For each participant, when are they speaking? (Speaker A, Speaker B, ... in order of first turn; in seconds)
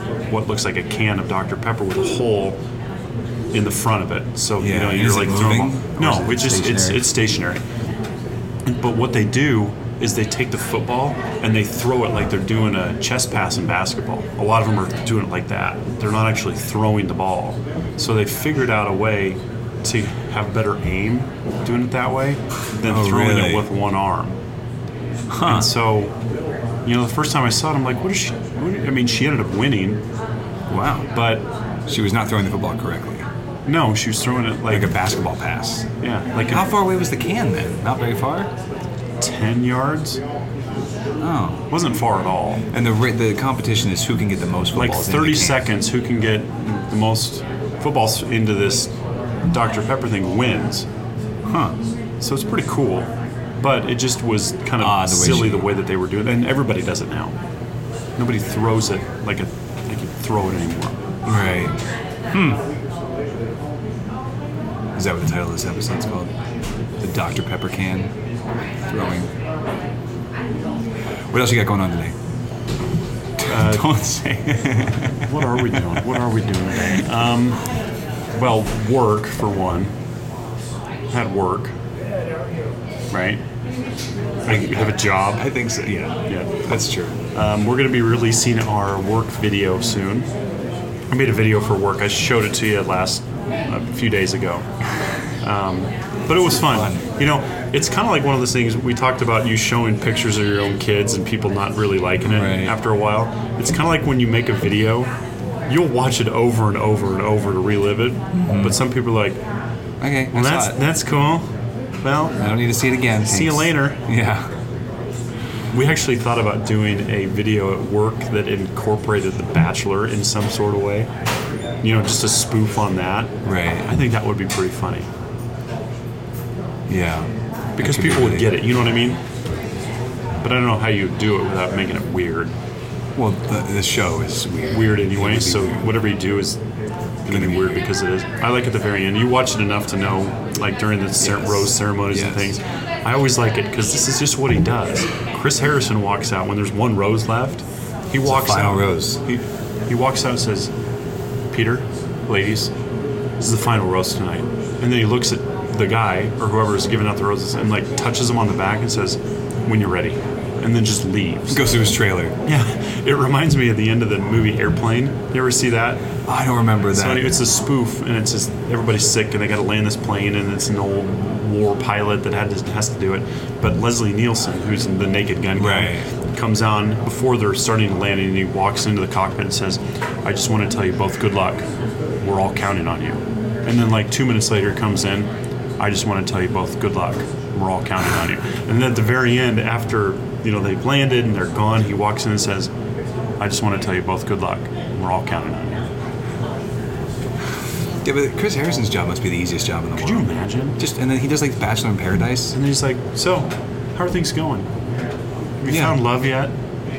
Speaker A: 0.3-2.6, 3.5-7.7, 8.7-24.4, 25.4-26.1, 26.9-30.0, 31.1-31.4, 33.6-35.0, 36.0-36.7, 39.2-40.2, 41.7-42.6, 44.7-48.9, 49.5-50.9, 52.2-53.1, 53.6-57.4, 58.2-61.0, 73.4-73.9, 75.0-77.6, 78.3-79.9, 81.1-81.7, 83.1-83.4, 84.5-86.7, 87.3-90.3, 91.1-94.7, 95.4-105.1, 105.7-109.4, 110.3-111.5, 112.0-112.4, 113.2-114.0, 115.7-121.1, 121.8-123.3, 123.8-125.1, 127.8-129.2, 130.4-132.5, 134.7-136.6, 137.2-150.7, 151.5-152.7, 153.4-161.7, 162.4-166.0, 166.9-181.6, 182.2-192.7, 193.4-195.9, 199.9-200.8, 202.5-204.7, 205.6-206.5
Speaker B: 4.6-7.1, 22.9-23.7, 25.3-25.7, 30.7-31.1, 31.9-33.3, 34.7-35.9, 36.5-38.5, 41.2-41.7, 42.7-45.6, 51.5-51.8, 54.8-55.7, 61.2-61.8, 62.3-62.6, 64.9-66.3, 67.0-68.1, 68.8-69.3, 71.3-72.1, 73.4-76.2, 84.5-87.2, 96.5-97.0, 102.2-102.8, 108.3-108.8, 110.0-110.8, 112.4-114.5, 123.4-123.9, 126.9-128.6, 133.2-135.8, 137.3-137.7, 141.4-142.5, 148.2-149.2, 161.5-162.3, 166.3-167.4, 175.6-176.0, 198.0-202.5, 205.7-206.0